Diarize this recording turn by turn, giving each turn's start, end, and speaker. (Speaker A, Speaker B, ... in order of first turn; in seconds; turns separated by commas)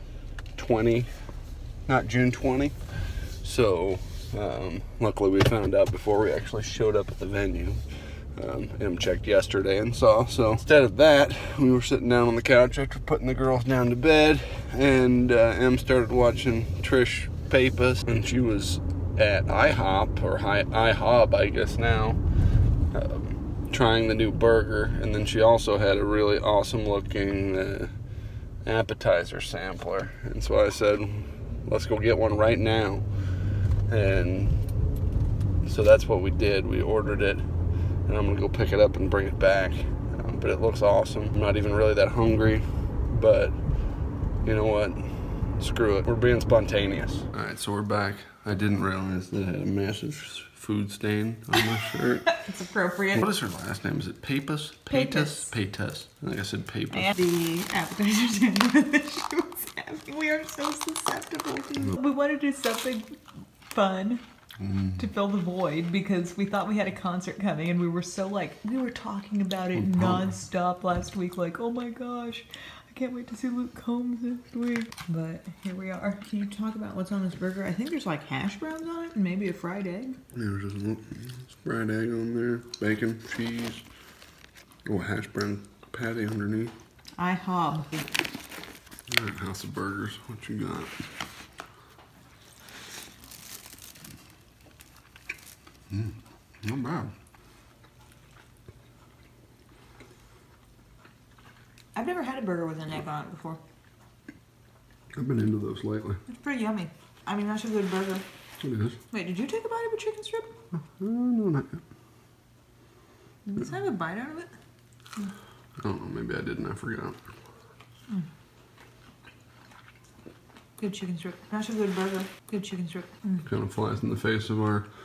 Speaker A: 0.6-1.1, Speaker A: 1.9-2.8, Speaker A: 3.4-7.8, Speaker A: 8.3-22.2, Speaker A: 22.9-27.9, Speaker A: 28.6-33.0, Speaker A: 33.9-34.6, Speaker A: 35.6-37.5, Speaker A: 38.1-43.6, Speaker A: 44.4-52.3, Speaker B: 52.3-53.2, Speaker A: 53.1-57.1, Speaker B: 54.9-55.5, Speaker B: 56.9-63.1, Speaker B: 63.7-64.2, Speaker A: 64.6-65.0, Speaker B: 65.0-80.2, Speaker A: 69.8-70.3, Speaker A: 80.3-83.8, Speaker A: 84.8-86.7, Speaker B: 87.2-88.0, Speaker A: 89.1-91.0, Speaker A: 95.9-97.1, Speaker B: 101.9-103.6, Speaker A: 105.1-106.2, Speaker B: 106.3-108.2, Speaker A: 108.6-109.0, Speaker B: 109.1-110.5, Speaker A: 110.7-111.8, Speaker B: 113.5-114.5, Speaker A: 115.8-117.2, Speaker B: 120.8-123.4, Speaker A: 123.4-124.9